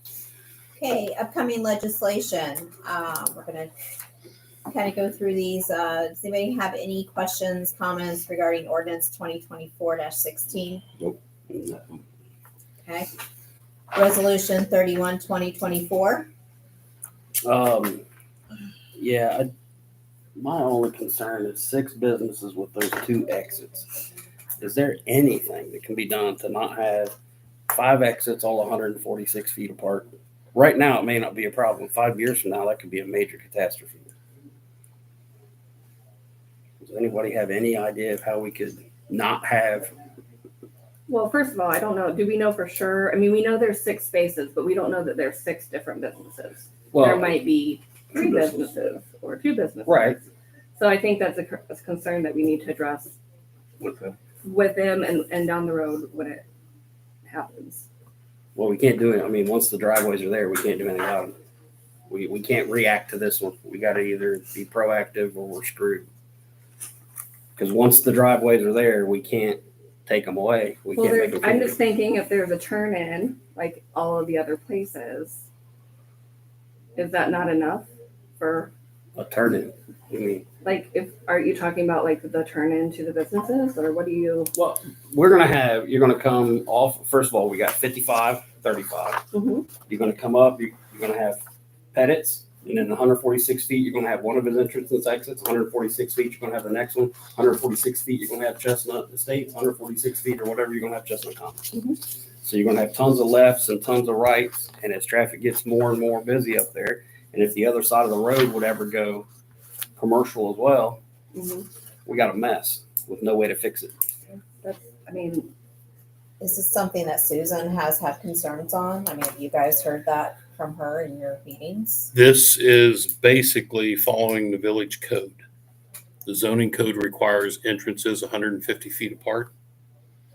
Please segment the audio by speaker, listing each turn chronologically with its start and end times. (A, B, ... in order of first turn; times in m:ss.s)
0:00.8-0:03.7 A
0:04.6-0:10.8 A
0:11.0-0:12.0 B
0:12.8-0:13.1 A
0:13.9-0:16.3 A
0:17.4-0:18.0 B
0:19.0-0:19.5 B
0:20.4-0:23.9 B
0:24.6-0:27.1 B
0:27.7-0:34.1 B
0:36.8-0:39.9 B
0:41.1-0:50.1 C
0:46.9-0:47.4 B
0:48.2-0:48.5 B
0:49.8-0:50.2 B
0:50.8-0:53.1 C
0:53.8-0:54.1 B
0:54.4-0:56.4 C
0:57.3-0:57.8 C
0:58.6-1:01.3 B
1:02.1-1:06.0 B
1:07.6-1:11.8 B
1:10.9-1:15.4 C
1:17.0-1:18.7 C
1:19.2-1:20.4 B
1:20.6-1:24.5 C
1:24.5-1:29.2 B
1:29.3-1:29.7 C
1:29.9-1:31.4 B
1:31.9-1:41.7 B
1:41.7-1:42.0 C
1:42.4-1:49.2 B
1:50.0-1:51.0 B
1:51.3-1:51.7 C
1:52.0-1:53.9 B
1:54.5-1:55.5 C
1:56.4-2:02.1 A
2:02.1-2:05.4 D
2:06.2-2:09.5 D